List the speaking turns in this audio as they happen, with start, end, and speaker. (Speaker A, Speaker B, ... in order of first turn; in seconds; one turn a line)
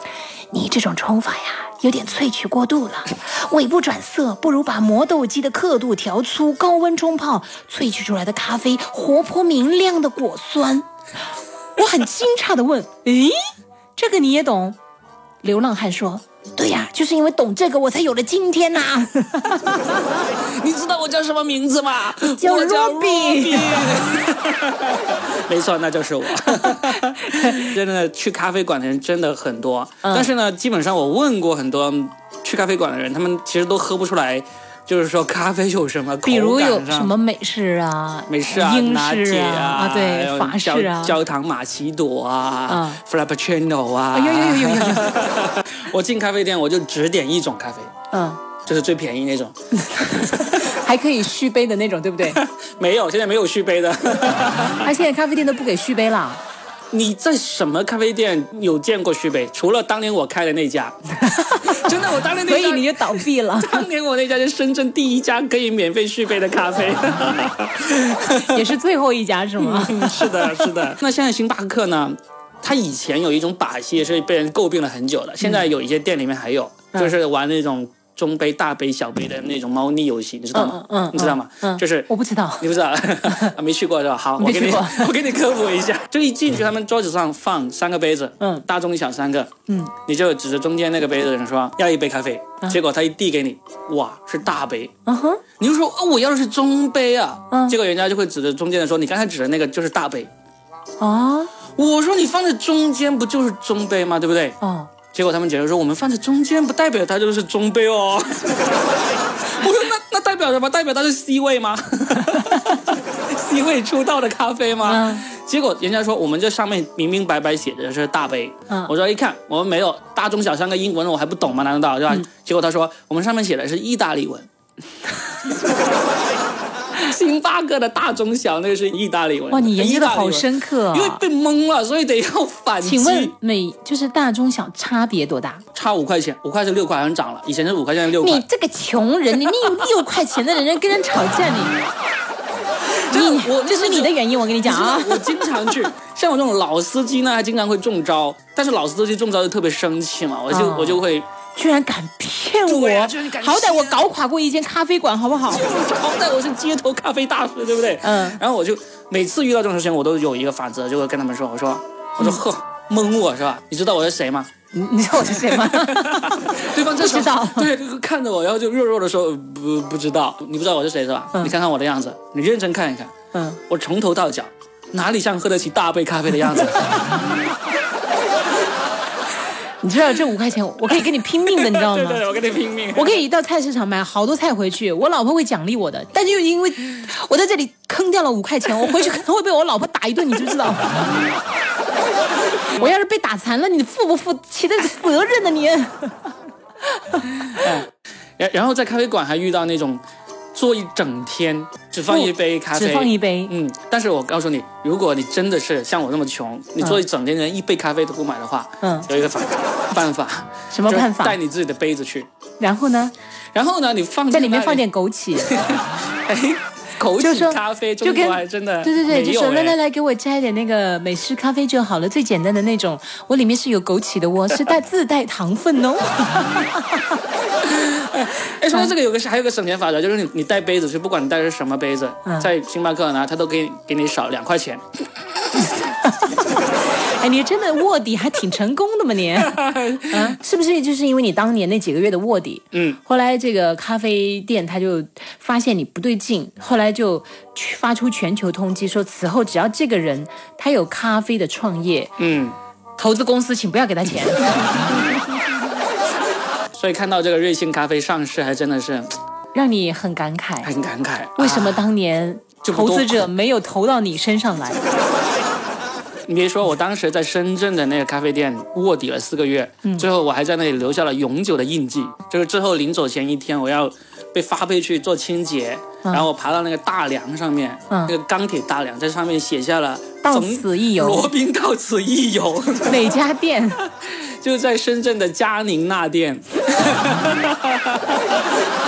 Speaker A: 0.5-10.9
Speaker A: 11.8-13.4
Speaker A: 14.0-14.8
Speaker A: 15.4-19.8
Speaker B: 20.2-37.1
Speaker A: 22.3-23.9
Speaker A: 30.0-30.3
Speaker A: 36.2-41.2
Speaker B: 38.3-47.9
Speaker A: 42.7-43.0
Speaker A: 44.1-45.1
Speaker A: 48.1-48.4
Speaker B: 48.6-49.5
Speaker A: 49.8-52.4
Speaker B: 50.1-50.7
Speaker B: 52.2-54.9
Speaker A: 54.8-56.4
Speaker B: 56.9-60.9
Speaker A: 61.2-63.8
Speaker B: 61.6-68.6
Speaker A: 68.4-70.7
Speaker B: 69.6-82.1
Speaker A: 80.5-82.7
Speaker B: 82.6-89.5
Speaker A: 83.3-83.5
Speaker A: 84.4-85.1
Speaker A: 88.4-88.7
Speaker A: 89.7-89.9
Speaker B: 90.1-94.9
Speaker A: 95.0-95.4
Speaker B: 95.6-100.3
Speaker A: 97.5-97.8
Speaker A: 101.0-101.5
Speaker B: 101.8-104.6
Speaker A: 104.6-104.9
Speaker B: 105.1-108.7
Speaker B: 109.4-124.5
Speaker A: 114.8-115.2
Speaker B: 126.9-133.3
Speaker A: 129.5-131.2
Speaker A: 132.8-135.6
Speaker B: 135.7-138.4
Speaker A: 138.2-141.8
Speaker B: 139.5-139.9
Speaker B: 143.0-151.3
Speaker A: 143.1-145.7
Speaker A: 150.5-155.7
Speaker B: 152.6-154.1
Speaker B: 155.4-164.5
Speaker A: 158.0-158.4
Speaker A: 164.7-167.7
Speaker B: 165.3-173.1
Speaker A: 173.3-173.6
Speaker B: 173.7-177.2
Speaker A: 179.8-182.2
Speaker B: 181.0-183.2
Speaker A: 182.9-191.2
Speaker A: 192.7-196.3
Speaker A: 196.9-197.6
Speaker B: 197.4-200.0
Speaker B: 200.5-212.3
Speaker A: 202.1-203.5
Speaker A: 208.8-209.1
Speaker A: 210.7-211.4
Speaker A: 212.6-213.1
Speaker B: 213.5-214.8
Speaker A: 214.3-215.5
Speaker B: 215.3-219.8
Speaker A: 217.2-227.2
Speaker B: 227.6-234.8
Speaker A: 235.6-239.6
Speaker B: 239.3-240.4
Speaker A: 240.1-252.2
Speaker B: 242.7-243.0
Speaker B: 252.2-252.6
Speaker A: 253.0-254.8
Speaker B: 256.7-259.1
Speaker A: 259.5-260.7
Speaker B: 260.6-261.8
Speaker A: 261.4-264.8
Speaker B: 262.6-263.3
Speaker B: 266.3-283.2
Speaker A: 276.0-276.3
Speaker A: 277.9-278.1
Speaker A: 280.2-281.3
Speaker A: 282.8-283.9
Speaker B: 284.0-288.6